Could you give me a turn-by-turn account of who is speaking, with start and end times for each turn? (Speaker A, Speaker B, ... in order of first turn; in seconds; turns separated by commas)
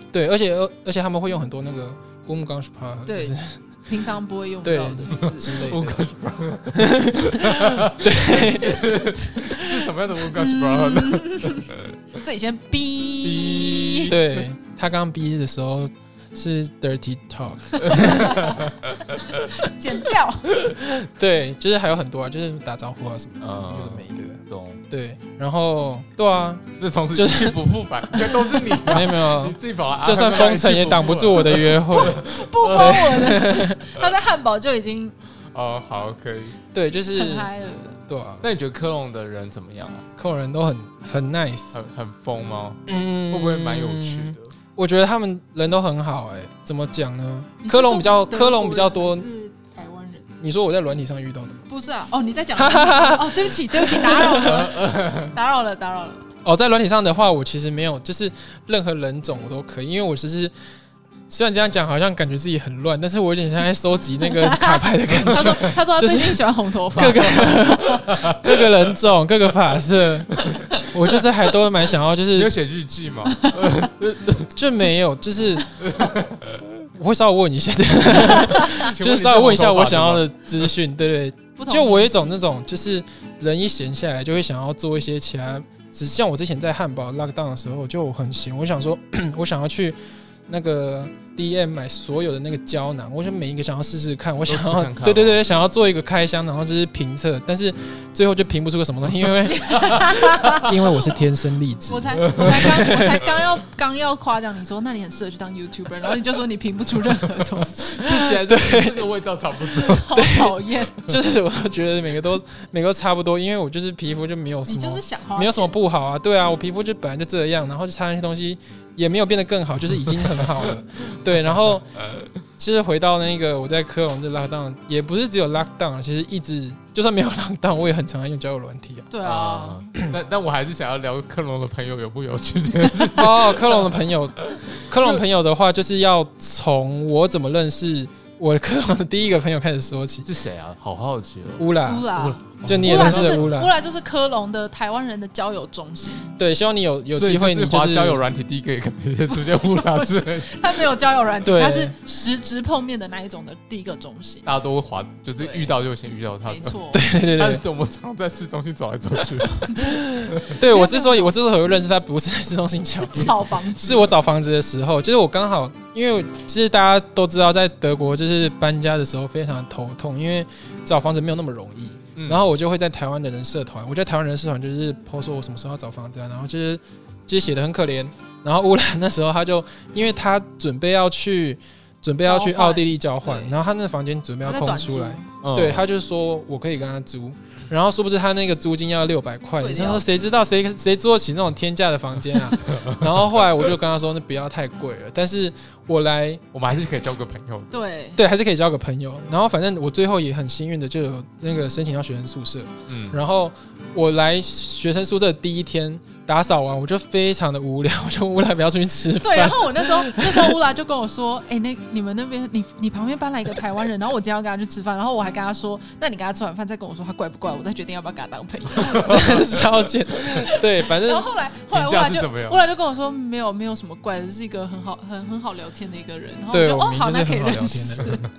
Speaker A: 0.1-3.6, Speaker B: 3.1-5.7, Speaker A: 4.6-6.0, Speaker C: 5.2-11.8, Speaker A: 6.7-9.5, Speaker B: 10.3-14.2, Speaker C: 13.2-14.2, Speaker A: 14.1-18.4, Speaker C: 17.8-19.4, Speaker B: 17.9-18.5, Speaker B: 19.1-20.6, Speaker A: 20.6-27.6, Speaker C: 23.4-24.8, Speaker C: 26.8-33.2, Speaker A: 28.8-33.8, Speaker B: 31.9-35.2, Speaker C: 35.4-36.6, Speaker A: 36.7-37.5, Speaker B: 37.1-38.0, Speaker A: 38.1-38.5, Speaker C: 38.4-40.1, Speaker A: 40.2-41.7, Speaker C: 41.7-44.5, Speaker A: 42.9-49.3, Speaker B: 47.6-50.3, Speaker A: 50.4-51.7, Speaker B: 51.7-56.2, Speaker A: 52.5-54.7, Speaker C: 54.4-55.4, Speaker A: 56.4-60.5, Speaker A: 61.3-72.5, Speaker B: 64.2-68.2, Speaker C: 68.0-68.4, Speaker C: 70.4-70.7, Speaker C: 72.3-74.5, Speaker B: 73.3-73.5, Speaker A: 74.5-75.7, Speaker C: 75.8-76.6, Speaker A: 76.9-103.3, Speaker C: 78.0-80.7, Speaker B: 78.4-78.8, Speaker B: 81.6-82.2, Speaker C: 94.5-95.4, Speaker B: 99.5-101.3, Speaker B: 101.8-108.3, Speaker C: 108.0-110.1, Speaker A: 108.0-109.1, Speaker B: 109.7-111.1, Speaker A: 109.8-121.9, Speaker B: 114.7-115.7, Speaker A: 122.6-129.1, Speaker B: 129.1-129.8, Speaker C: 129.2-133.9, Speaker A: 133.2-140.3, Speaker C: 140.2-143.6, Speaker A: 141.6-143.7, Speaker B: 141.8-146.4, Speaker A: 146.4-148.2, Speaker C: 147.1-150.7, Speaker B: 149.3-154.4, Speaker A: 151.4-151.9, Speaker C: 154.4-159.7, Speaker B: 155.4-155.7, Speaker B: 156.5-157.0, Speaker A: 156.9-157.6, Speaker B: 159.5-161.3, Speaker A: 160.0-196.4, Speaker B: 162.9-164.1, Speaker C: 172.2-172.5, Speaker B: 182.2-183.5, Speaker B: 184.4-185.3, Speaker C: 185.4-185.9, Speaker B: 189.6-190.0, Speaker C: 192.7-193.0, Speaker C: 196.5-197.7, Speaker B: 197.7-198.2, Speaker A: 198.2-210.6, Speaker C: 202.9-203.2, Speaker B: 209.1-228.2, Speaker A: 219.0-221.3, Speaker C: 221.7-222.6, Speaker A: 226.5-228.2